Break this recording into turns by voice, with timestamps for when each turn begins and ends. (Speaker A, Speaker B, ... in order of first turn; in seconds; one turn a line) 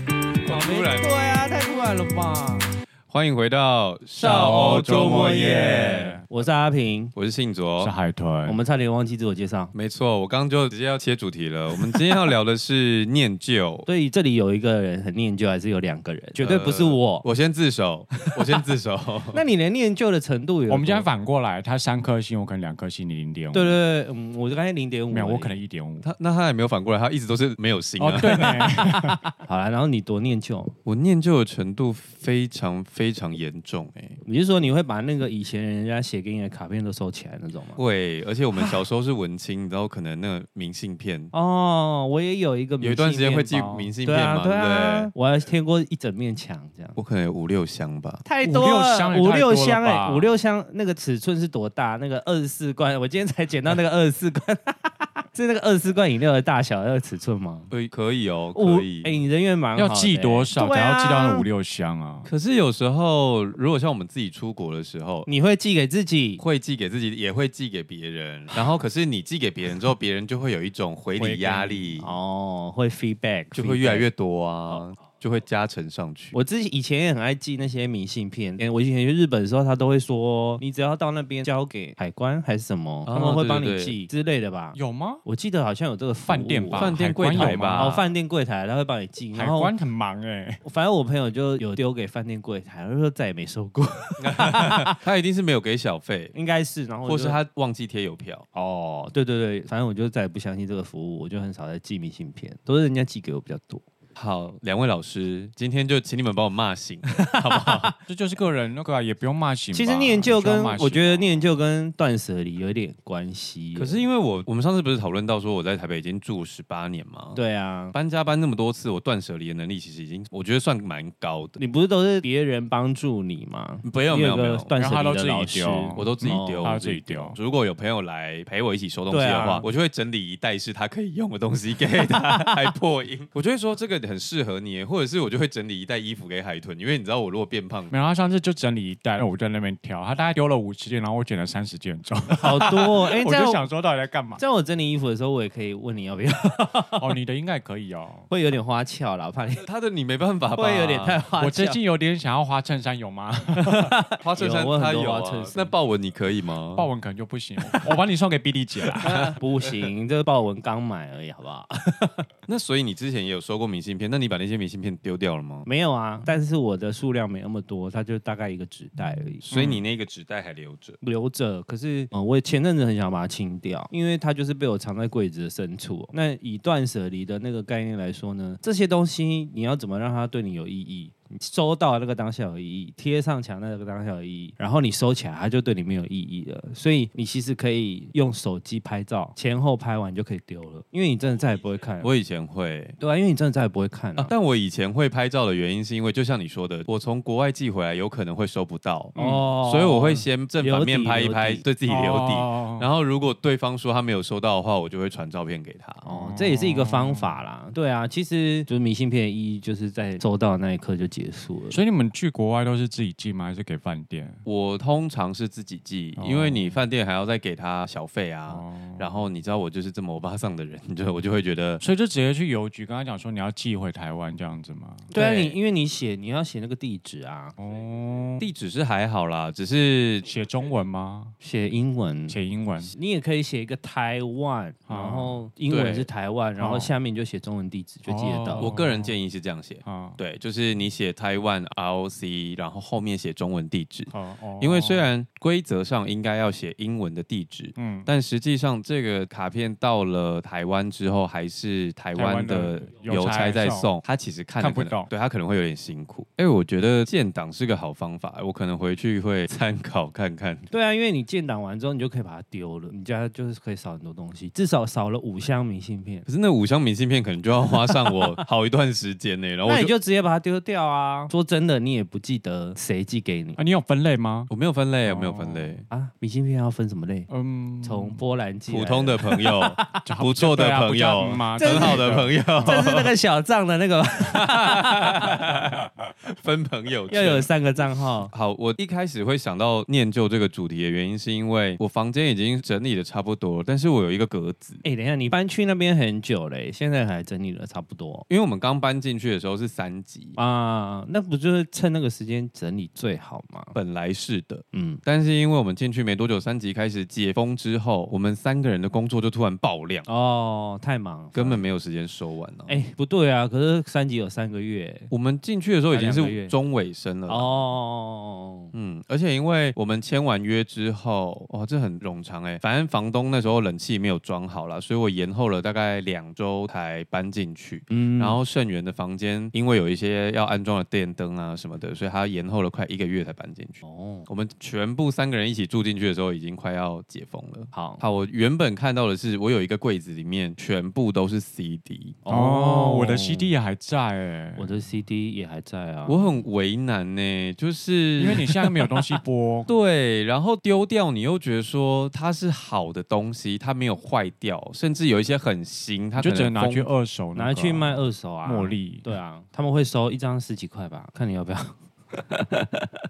Speaker A: 0.4-1.1
Speaker B: 0.4-2.7
Speaker A: 3.1-6.2
Speaker B: 4.2-7.1
Speaker C: 4.2-6.2
Speaker A: 7.2-7.9
Speaker C: 7.8-8.6
Speaker B: 8.4-9.7
Speaker A: 9.7-13.9
Speaker B: 13.9-17.3
Speaker A: 16.4-19.4
Speaker B: 19.3-21.1
Speaker C: 20.7-23.8
Speaker B: 23.5-25.6
Speaker C: 25.1-26.1
Speaker A: 26.0-28.7
Speaker C: 28.0-29.2
Speaker B: 28.4-30.8
Speaker A: 30.9-34.2
Speaker B: 34.2-37.8
Speaker A: 37.8-41.3
Speaker B: 41.3-47.0
Speaker A: 42.8-45.1
Speaker A: 47.0-48.2
Speaker B: 48.2-57.7
Speaker C: 48.4-50.3
Speaker A: 57.7-59.1
Speaker B: 58.5-61.5
Speaker C: 59.8-62.3
Speaker A: 62.3-65.3
Speaker B: 65.3-66.4
Speaker A: 66.4-72.1
Speaker C: 71.2-72.0
Speaker B: 72.0-74.1
Speaker A: 73.5-76.3
Speaker B: 76.3-89.7
Speaker A: 83.0-84.0
Speaker C: 84.8-85.2
Speaker C: 86.3-88.1
Speaker A: 86.8-88.0
Speaker C: 89.3-90.6
Speaker B: 90.6-95.0
Speaker A: 94.2-96.3
Speaker B: 96.3-97.4
Speaker A: 97.0-98.5
Speaker B: 98.5-103.8
Speaker A: 104.2-107.9
Speaker B: 107.2-108.0
Speaker C: 108.1-111.5
Speaker B: 109.7-114.0
Speaker A: 113.8-117.4
Speaker B: 117.3-118.0
Speaker A: 117.9-121.6
Speaker B: 121.6-127.3
Speaker A: 123.8-124.7
Speaker C: 124.8-127.4
Speaker A: 126.0-137.9
Speaker B: 129.1-129.7
Speaker B: 132.0-132.6
Speaker C: 137.9-144.4
Speaker B: 142.3-143.6
Speaker B: 144.4-147.1
Speaker C: 147.0-148.3
Speaker B: 148.3-149.6
Speaker A: 149.6-151.2
Speaker B: 150.6-151.8
Speaker C: 151.4-154.0
Speaker B: 153.6-155.7
Speaker A: 154.2-156.9
Speaker C: 156.8-159.1
Speaker B: 159.0-162.3
Speaker A: 159.0-159.4
Speaker A: 162.5-165.7
Speaker B: 165.7-169.5
Speaker A: 169.5-171.0
Speaker C: 169.5-169.8
Speaker B: 171.0-192.1
Speaker A: 192.0-192.9
Speaker B: 193.0-194.3
Speaker A: 194.2-206.0
Speaker B: 199.2-201.7
Speaker C: 199.2-199.4
Speaker C: 201.9-202.9
Speaker B: 206.0-211.8
Speaker C: 206.1-207.4
Speaker C: 211.7-214.4
Speaker A: 214.5-221.8
Speaker C: 216.2-216.8
Speaker C: 218.5-219.2
Speaker C: 221.8-225.5
Speaker B: 225.1-227.6
Speaker C: 227.6-228.5
Speaker A: 228.4-230.3
Speaker C: 230.2-231.3
Speaker B: 231.4-238.7
Speaker C: 232.3-232.9
Speaker C: 234.9-235.4
Speaker A: 235.7-236.1
Speaker C: 236.6-236.9
Speaker C: 238.1-239.2
Speaker A: 238.6-260.7
Speaker C: 239.8-240.2
Speaker C: 244.1-245.1
Speaker C: 247.8-248.1
Speaker C: 252.2-253.9
Speaker C: 254.6-255.1
Speaker B: 260.7-266.3
Speaker A: 266.3-269.9
Speaker B: 269.7-273.6
Speaker C: 273.6-274.5
Speaker A: 274.5-275.9
Speaker C: 275.1-275.8
Speaker B: 275.9-277.3
Speaker C: 277.3-278.2
Speaker B: 277.8-280.0
Speaker A: 278.7-283.1
Speaker C: 280.0-282.8
Speaker B: 281.6-282.1
Speaker B: 282.6-285.7
Speaker A: 284.3-287.5
Speaker B: 287.1-288.3
Speaker A: 288.3-294.8
Speaker B: 294.8-298.3
Speaker A: 298.3-300.4
Speaker B: 300.4-303.8
Speaker A: 303.7-310.1
Speaker B: 304.7-305.0
Speaker B: 310.1-311.6
Speaker A: 311.4-312.8
Speaker B: 312.7-315.1
Speaker A: 315.1-317.6
Speaker B: 315.9-316.5
Speaker B: 317.3-318.7
Speaker A: 318.7-342.2
Speaker B: 327.9-328.4
Speaker B: 333.8-334.3
Speaker B: 337.7-338.0
Speaker B: 342.2-343.5
Speaker C: 342.3-344.7
Speaker B: 344.6-346.3
Speaker A: 346.1-348.6
Speaker C: 348.2-349.7
Speaker A: 349.7-356.9
Speaker C: 356.2-359.1
Speaker B: 357.4-362.9